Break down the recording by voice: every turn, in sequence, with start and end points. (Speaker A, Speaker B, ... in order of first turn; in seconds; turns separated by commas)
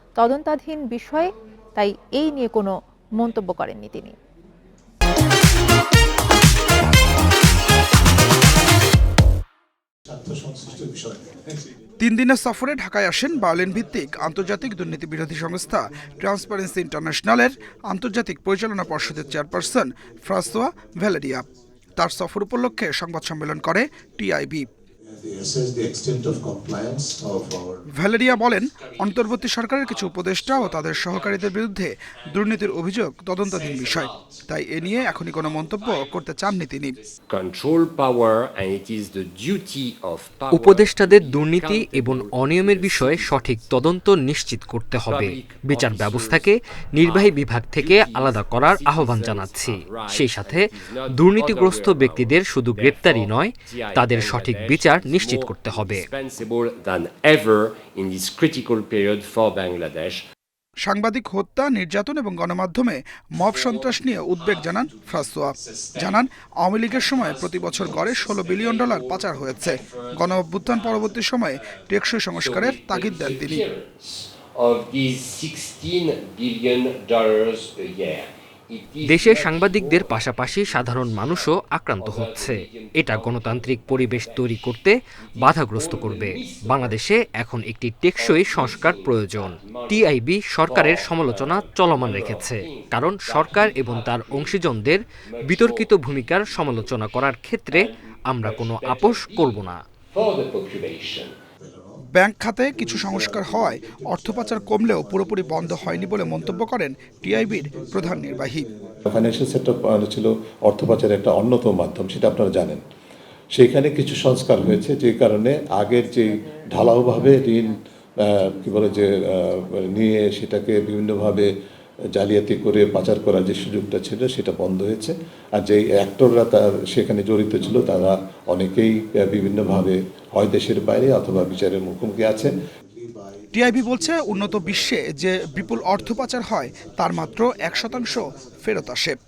Speaker A: 0.2-4.2, Speaker B: 10.1-11.7, Speaker C: 12.0-24.7, Speaker B: 18.9-19.5, Speaker B: 25.1-27.8, Speaker C: 27.9-37.0, Speaker D: 28.2-31.6, Speaker D: 32.2-32.8, Speaker D: 33.4-43.8, Speaker E: 40.5-56.1, Speaker D: 45.0-60.2, Speaker C: 60.8-73.6, Speaker D: 63.4-66.3, Speaker D: 66.9-71.2, Speaker D: 71.9-84.8, Speaker E: 79.0-99.8, Speaker D: 85.3-87.0, Speaker D: 88.2-90.1, Speaker D: 90.6-97.1, Speaker D: 97.7-101.3, Speaker B: 101.6-102.0, Speaker C: 102.1-108.7, Speaker B: 102.7-112.8, Speaker B: 113.5-121.5, Speaker B: 122.1-135.0, Speaker C: 133.5-139.2, Speaker B: 135.5-138.8